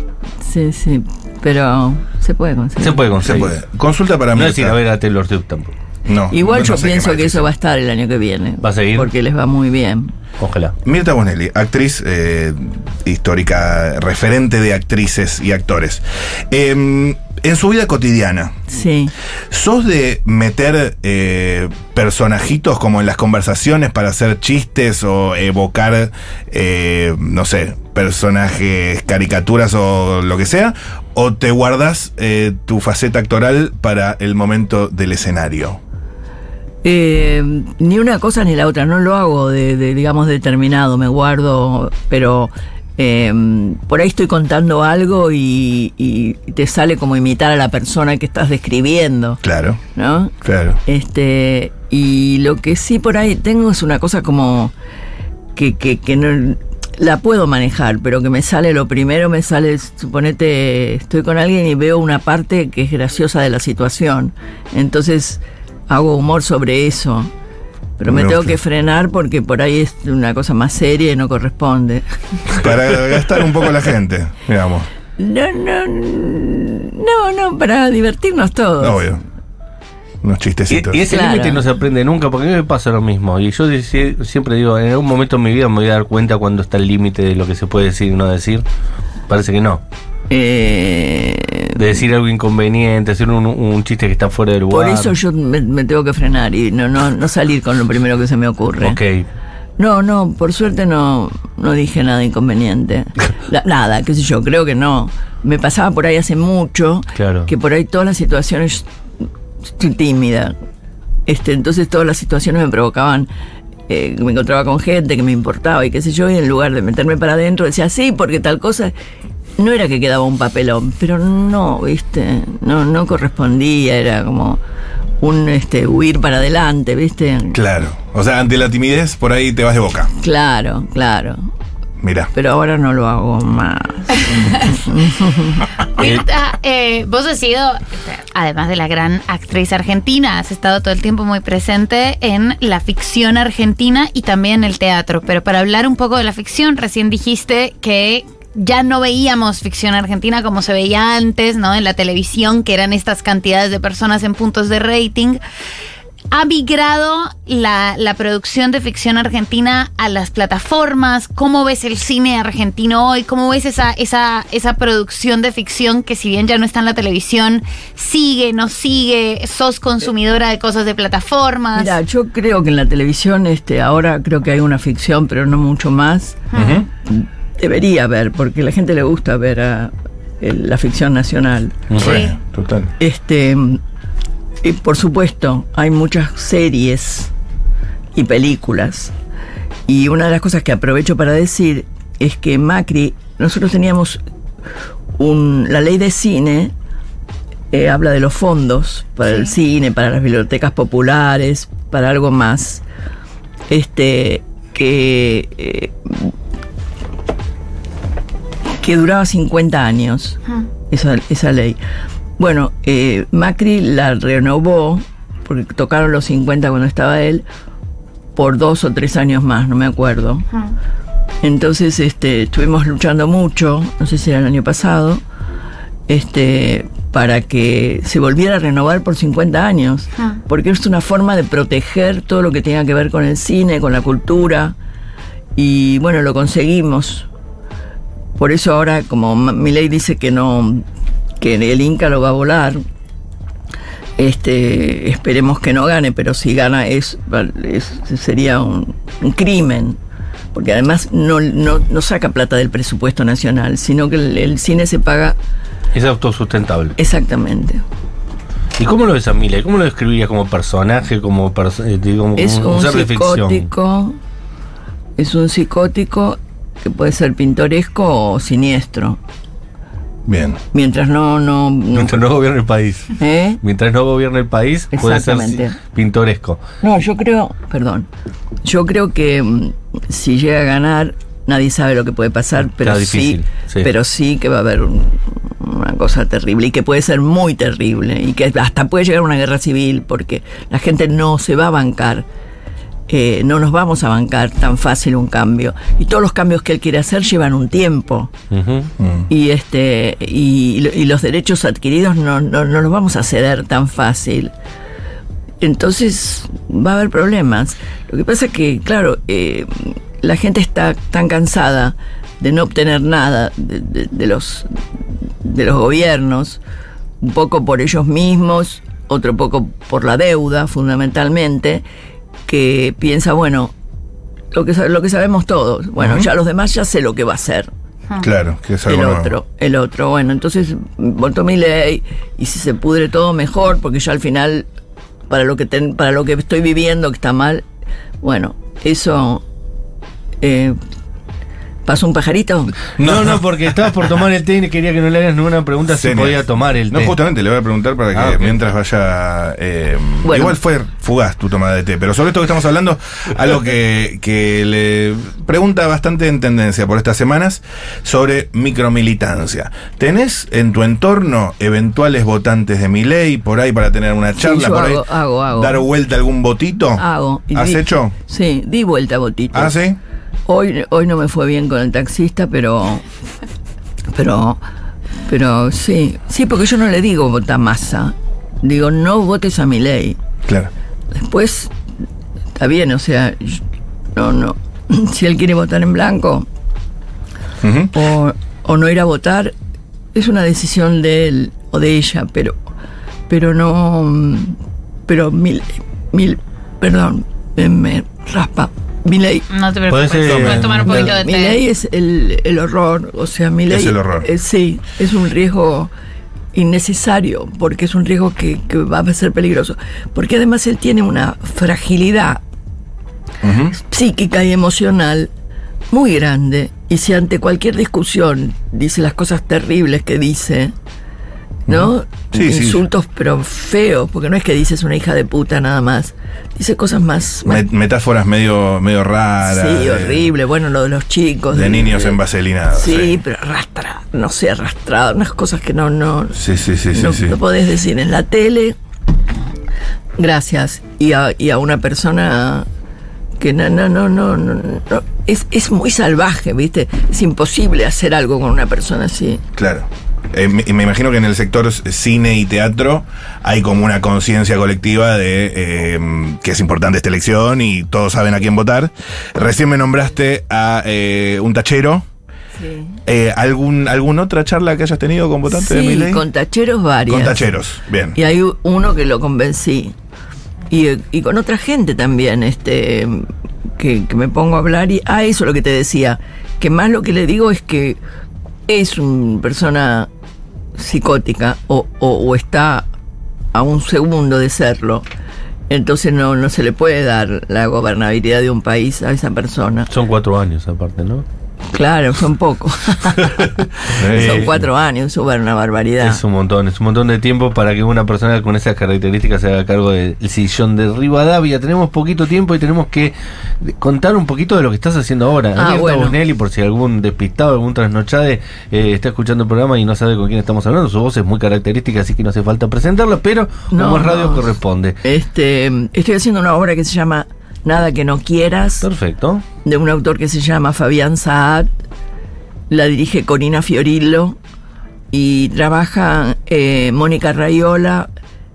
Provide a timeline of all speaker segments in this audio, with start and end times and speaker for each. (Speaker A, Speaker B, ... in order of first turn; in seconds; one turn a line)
Speaker A: 0.4-3.0
Speaker B: 2.8-3.6
Speaker C: 3.2-4.8
Speaker B: 4.3-5.7
Speaker C: 6.1-7.5
Speaker A: 6.3-10.1
Speaker B: 8.6-9.1
Speaker B: 10.4-10.7
Speaker C: 10.8-18.7
Speaker A: 18.7-19.1
Speaker C: 19.5-35.8
Speaker A: 36.8-49.4
Speaker C: 49.4-49.8
Speaker A: 49.9-50.3
Speaker C: 50.4-50.8
Speaker A: 50.8-54.7
Speaker A: 55.6-67.3
Speaker A: 68.0-72.0
Speaker C: 68.1-68.6
Speaker C: 72.5-74.9
Speaker A: 75.2-79.1
Speaker C: 78.8-79.2
Speaker C: 80.2-81.0
Speaker B: 80.7-88.6
Speaker A: 81.1-81.6
Speaker B: 89.3-89.8
Speaker A: 90.3-91.8
Speaker B: 91.7-95.2
Speaker A: 94.7-99.0
Speaker B: 98.8-99.3
Speaker A: 99.8-108.9
Speaker B: 107.2-107.5
Speaker A: 109.8-110.5
Speaker A: 111.2-113.3
Speaker A: 113.9-118.9
Speaker A: 119.6-124.6
Speaker A: 125.2-127.6
Speaker C: 127.5-130.1
Speaker A: 130.2-131.5
Speaker C: 132.0-132.3
Speaker A: 132.3-135.7
Speaker D: 134.2-134.7
Speaker D: 135.9-155.4
Speaker D: 156.3-171.9
Speaker A: 171.8-176.4
Speaker D: 176.5-176.8
Speaker C: 176.5-176.9
Speaker A: 177.0-181.9
Speaker B: 181.9-182.2
Speaker C: 182.0-182.9
Speaker D: 182.0-182.3
Speaker A: 183.0-183.8
Speaker A: 184.6-187.3
Speaker A: 188.1-189.1
Speaker A: 189.9-194.2
Speaker A: 195.2-196.7
Speaker A: 197.7-202.8
Speaker A: 203.7-206.3
Speaker A: 208.8-211.8
Speaker A: 212.4-217.4
Speaker A: 218.4-220.4
Speaker A: 221.4-225.2
Speaker A: 226.1-234.8
Speaker A: 235.6-237.3
Speaker A: 238.4-240.8
Speaker A: 241.4-242.8
Speaker A: 244.2-250.0
Speaker A: 250.5-255.4
Speaker B: 255.9-256.9
Speaker A: 257.0-257.8
Speaker B: 258.8-263.7
Speaker A: 262.4-264.2
Speaker A: 265.2-269.2
Speaker C: 270.2-270.6
Speaker A: 270.7-272.2
Speaker B: 271.9-276.6
Speaker A: 273.2-273.6
Speaker A: 274.9-275.8
Speaker A: 276.8-278.1
Speaker A: 278.6-292.2
Speaker B: 282.6-283.9
Speaker A: 293.1-298.3
Speaker B: 298.5-298.9
Speaker C: 299.0-299.2
Speaker A: 299.3-304.5
Speaker A: 305.6-314.8
Speaker A: 315.4-316.6
Speaker A: 317.2-321.8
Speaker A: 322.5-323.7
Speaker A: 324.5-327.7
Speaker C: 326.0-326.3
Speaker C: 328.2-329.3
Speaker A: 328.9-334.7
Speaker A: 335.3-337.6
Speaker A: 338.2-339.4
Speaker A: 340.4-340.8
Speaker A: 341.9-342.8
Speaker B: 343.0-347.1
Speaker C: 343.0-343.4
Speaker C: 345.9-368.1
Speaker B: 348.1-348.6
Speaker A: 350.2-350.6
Speaker A: 364.4-365.9
Speaker A: 367.0-369.8
Speaker C: 369.5-370.0
Speaker A: 370.5-373.0
Speaker A: 374.1-374.6
Speaker A: 375.2-380.2
Speaker A: 381.1-381.7
Speaker A: 382.6-383.6
Speaker A: 384.1-386.5
Speaker C: 387.6-387.9
Speaker A: 387.9-389.5
Speaker A: 390.1-392.6
Speaker A: 393.3-399.5
Speaker D: 399.5-401.6
Speaker B: 399.9-401.1
Speaker C: 400.2-400.8
Speaker A: 400.8-405.9
Speaker C: 403.7-404.3
Speaker A: 406.5-412.4
Speaker C: 413.4-413.8
Speaker A: 413.7-415.3
Speaker A: 415.9-420.7
Speaker C: 421.7-422.9
Speaker A: 421.7-427.6
Speaker C: 427.4-430.3
Speaker A: 429.4-432.2
Speaker C: 431.5-433.2
Speaker A: 432.7-436.4
Speaker C: 436.3-437.4
Speaker A: 436.9-438.8
Speaker A: 440.2-442.7
Speaker A: 443.4-449.4
Speaker C: 449.6-462.1
Speaker A: 462.6-463.0
Speaker C: 463.1-466.2
Speaker A: 465.5-467.4
Speaker C: 467.1-468.1
Speaker A: 468.1-469.9
Speaker A: 470.7-478.0
Speaker A: 478.7-480.1
Speaker A: 480.8-482.9
Speaker A: 483.5-485.1
Speaker A: 485.7-489.9
Speaker B: 489.9-491.2
Speaker A: 491.7-496.2
Speaker B: 493.2-494.6
Speaker C: 493.9-494.5
Speaker B: 496.0-515.0
Speaker A: 505.6-506.2
Speaker A: 513.7-514.5
Speaker A: 515.0-518.9
Speaker B: 518.8-519.4
Speaker A: 519.6-521.7
Speaker A: 522.7-524.4
Speaker A: 525.1-528.1